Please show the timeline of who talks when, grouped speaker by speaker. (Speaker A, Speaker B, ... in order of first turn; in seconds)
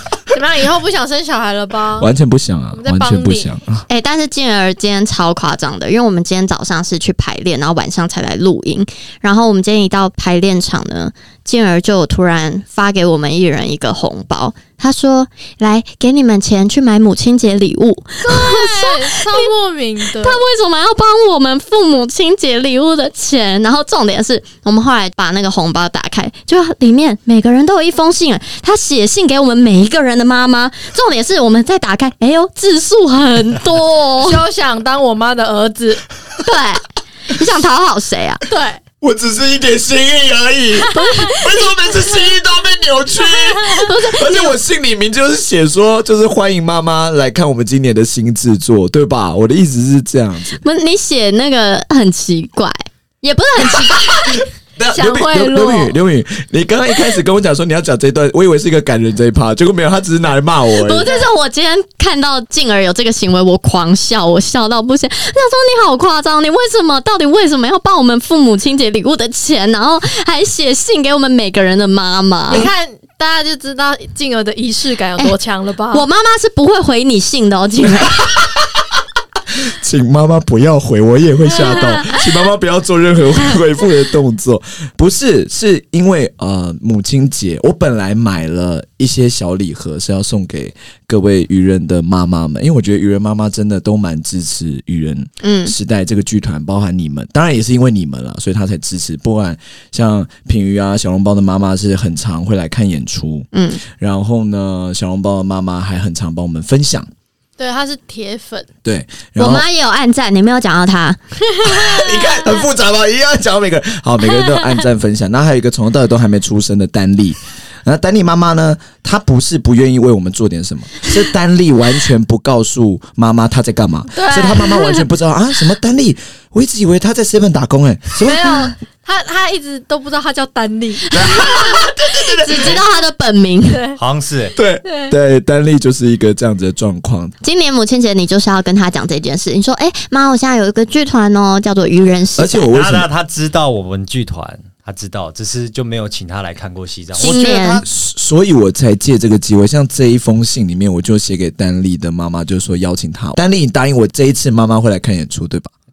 Speaker A: 0.3-2.1, 2.7-3.5, 18.2-20.4, 34.2-36.0, 38.5-38.8, 54.9-56.0, 61.0-61.3, 72.5-76.0, 107.6-108.7, 111.8-112.2, 124.1-125.0, 128.2-131.1, 133.7-134.0, 134.8-135.1
Speaker B: 2.0-3.9, 39.0-50.6, 54.8-61.0, 79.6-107.1, 108.8-109.6, 111.6-128.2, 131.1-132.8, 134.6-137.3, 142.4-143.1, 147.8-155.7
Speaker C: 3.9-19.5, 20.1-34.4, 36.4-38.4, 40.9-41.4, 43.6-44.6, 50.6-54.4, 60.7-72.7, 75.9-78.3, 81.5-82.2, 95.4-95.7, 103.5-103.8, 109.4-111.2, 131.1-133.9, 137.4-142.7, 147.1-147.8
Speaker D: 128.2-128.4, 134.0-134.5, 142.7-147.8